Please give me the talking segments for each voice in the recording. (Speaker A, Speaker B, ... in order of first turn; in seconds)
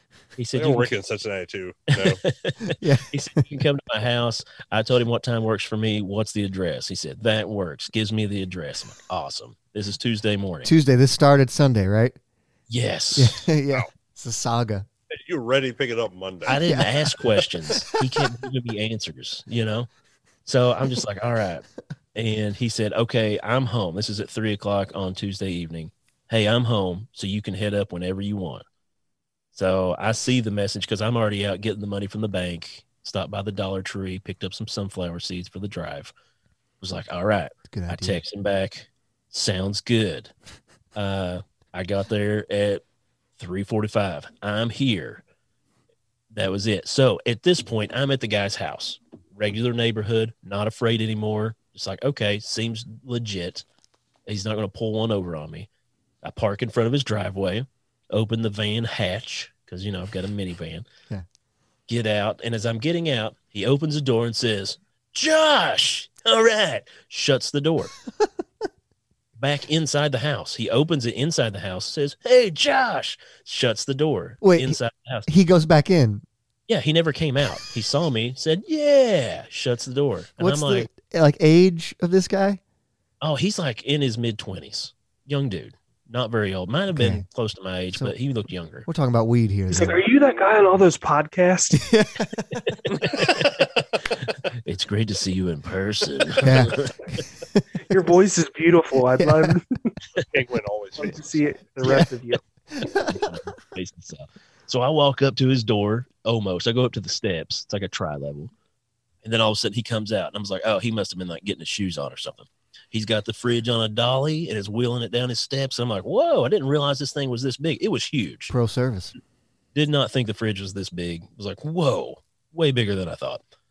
Speaker A: 0.4-1.0, 2.0-10.7, 12.7-13.4, 16.5-19.9, 20.4-21.6, 22.1-28.6, 29.5-36.1, 36.8-40.3, 41.0-42.8, 43.4-45.2, 46.3-53.6, 54.3-55.7, 56.2-60.9, 61.9-67.9, 69.4-75.3, 76.7-80.9, 83.2-88.9, 92.9-96.9, 103.1-108.5, 109.2-118.5, 119.8-123.4
Speaker B: 0.5-2.2, 15.1-16.6, 100.2-101.4
Speaker C: 2.8-3.4, 10.6-12.2, 13.2-14.9, 16.5-16.9, 37.7-38.2, 74.4-76.2, 80.4-82.6, 86.9-87.2, 88.9-90.0, 91.7-92.7, 96.4-96.8, 97.4-97.7, 99.2-99.6, 102.7-103.2, 118.5-119.1
Speaker D: 89.7-91.8, 97.9-99.9, 101.0-102.4